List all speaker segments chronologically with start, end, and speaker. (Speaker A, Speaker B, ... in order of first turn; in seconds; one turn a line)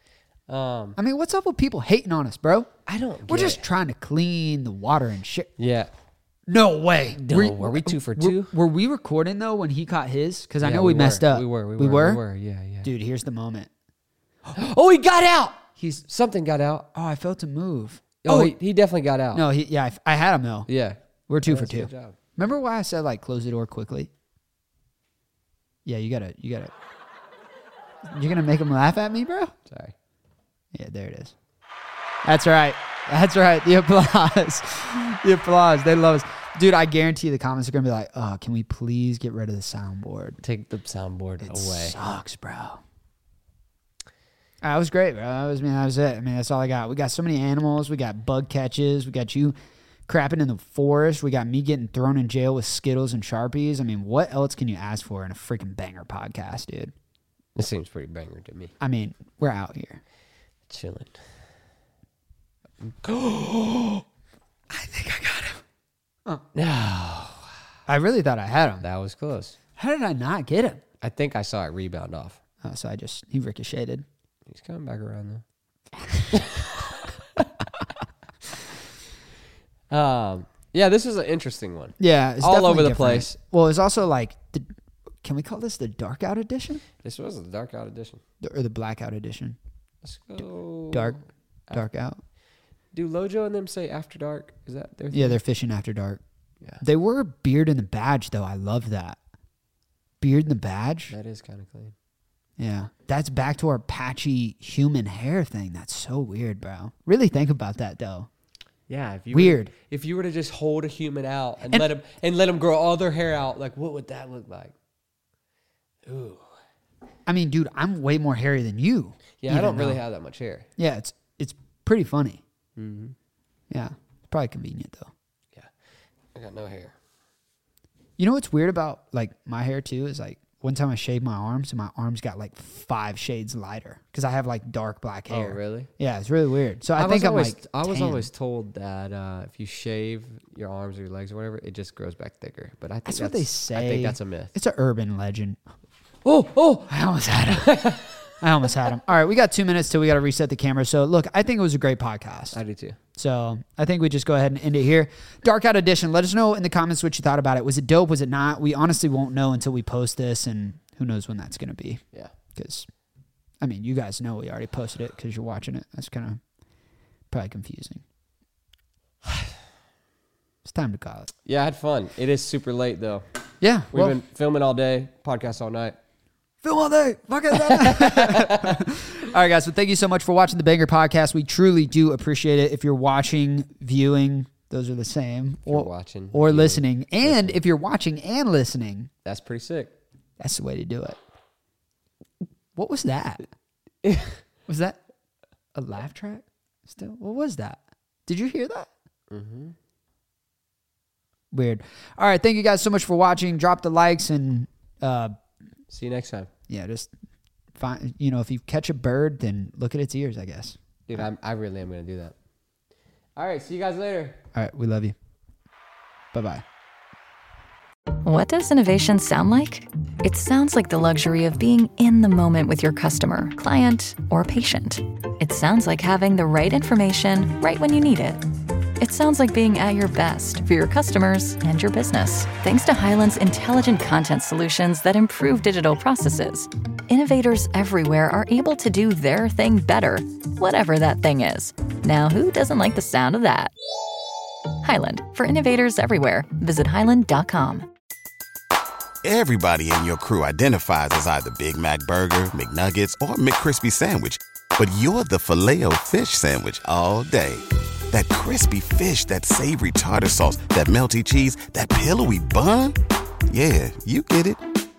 Speaker A: 0.5-1.0
Speaker B: 1.0-2.7
Speaker A: 2.9-3.6
Speaker B: 3.3-5.5
Speaker A: 5.6-5.9
Speaker B: 6.5-12.2
Speaker A: 7.2-8.5
Speaker A: 10.6-12.9
Speaker B: 12.8-13.7
Speaker A: 14.5-16.9
Speaker B: 16.9-18.6
Speaker A: 18.2-19.4
Speaker B: 19.3-20.7
Speaker A: 20.7-22.2
Speaker B: 21.3-24.1
Speaker B: 25.9-26.7
Speaker B: 28.1-29.5
Speaker A: 29.7-29.9
Speaker B: 30.7-31.3
Speaker B: 32.2-40.4
Speaker A: 40.4-42.0
Speaker B: 41.4-42.8
Speaker B: 44.6-49.5
Speaker B: 50.1-56.9
Speaker A: 57.6-58.7
Speaker B: 58.8-60.0
Speaker A: 60.7-61.2
Speaker A: 62.8-64.0
Speaker B: 64.7-65.6
Speaker A: 66.5-67.5
Speaker B: 67.9-68.8
Speaker A: 68.8-69.6
Speaker B: 69.8-70.8
Speaker A: 71.0-72.4
Speaker B: 72.6-74.1
Speaker A: 74.5-75.4
Speaker A: 76.3-77.4
Speaker A: 79.9-83.4
Speaker B: 82.0-84.7
Speaker B: 85.2-86.8
Speaker A: 87.0-88.2
Speaker B: 88.4-89.6
Speaker A: 90.0-91.8
Speaker B: 90.9-91.2
Speaker B: 91.7-92.2
Speaker A: 92.9-95.4
Speaker B: 95.1-96.2
Speaker B: 96.8-99.2
Speaker B: 100.2-101.2
Speaker A: 101.1-101.9
Speaker B: 102.6-108.3
Speaker A: 108.9-114.7
Speaker B: 109.3-109.7
Speaker A: 116.1-116.5
Speaker B: 117.3-120.0
Speaker A: 119.4-120.7
Speaker B: 120.8-122.4
Speaker A: 122.8-123.2
Speaker B: 123.7-125.1
Speaker A: 126.3-127.0
Speaker B: 128.2-138.3
Speaker A: 135.3-135.9
Speaker A: 137.0-144.6
Speaker B: 143.1-145.6
Speaker A: 146.2-146.9
Speaker B: 146.8-152.6
Speaker A: 147.6-148.1
Speaker A: 152.5-153.0
Speaker B: 153.2-162.0
Speaker B: 162.6-162.9
Speaker B: 163.6-166.4
Speaker B: 167.3-168.0
Speaker B: 170.7-171.3
Speaker A: 171.5-173.2
Speaker B: 173.6-174.2
Speaker A: 173.9-176.0
Speaker B: 176.6-189.1
Speaker A: 177.7-178.8
Speaker A: 185.7-187.6
Speaker A: 189.2-189.9
Speaker B: 190.4-191.2
Speaker B: 192.8-193.4
Speaker A: 194.0-194.4
Speaker B: 194.7-195.0
Speaker B: 195.8-198.9
Speaker A: 199.3-199.8
Speaker B: 201.5-205.4
Speaker A: 205.9-206.5
Speaker B: 206.7-207.1
Speaker B: 207.8-210.8
Speaker A: 211.1-212.3
Speaker A: 213.4-214.4
Speaker B: 214.6-215.2
Speaker B: 216.3-216.6
Speaker C: 218.2-228.4
Speaker C: 229.0-243.7
Speaker C: 244.8-247.9
Speaker D: 249.2-263.0
Speaker D: 263.5-264.6